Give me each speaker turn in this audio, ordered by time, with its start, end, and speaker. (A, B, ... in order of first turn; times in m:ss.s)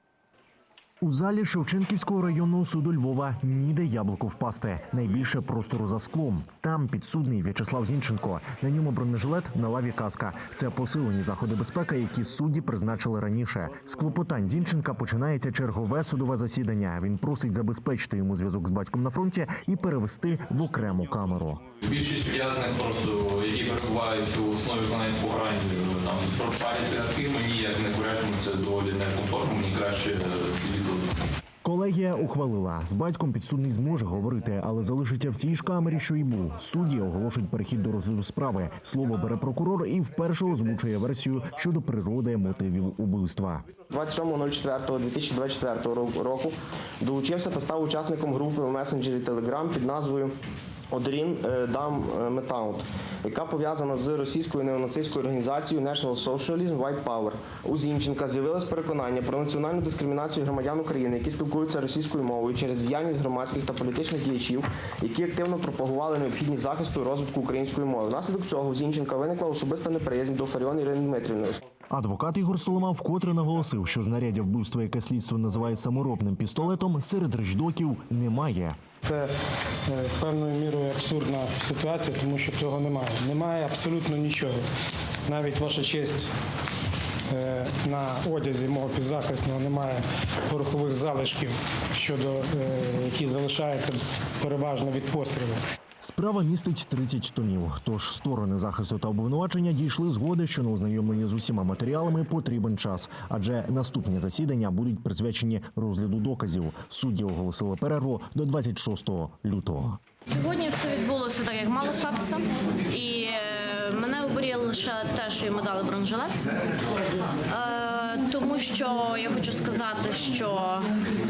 0:01.0-0:21.6 A
0:21.8-0:31.1 B
0:31.6-0:43.7 A
0:43.9-0:50.4 C
0:50.9-1:11.6 C
1:11.9-1:18.8 A
1:19.0-1:19.3 D
1:19.9-1:24.6 D
1:25.2-1:26.3 D
1:27.3-1:35.6 D
1:36.0-1:50.0 A
1:50.3-1:56.6 E
1:57.5-2:01.0 E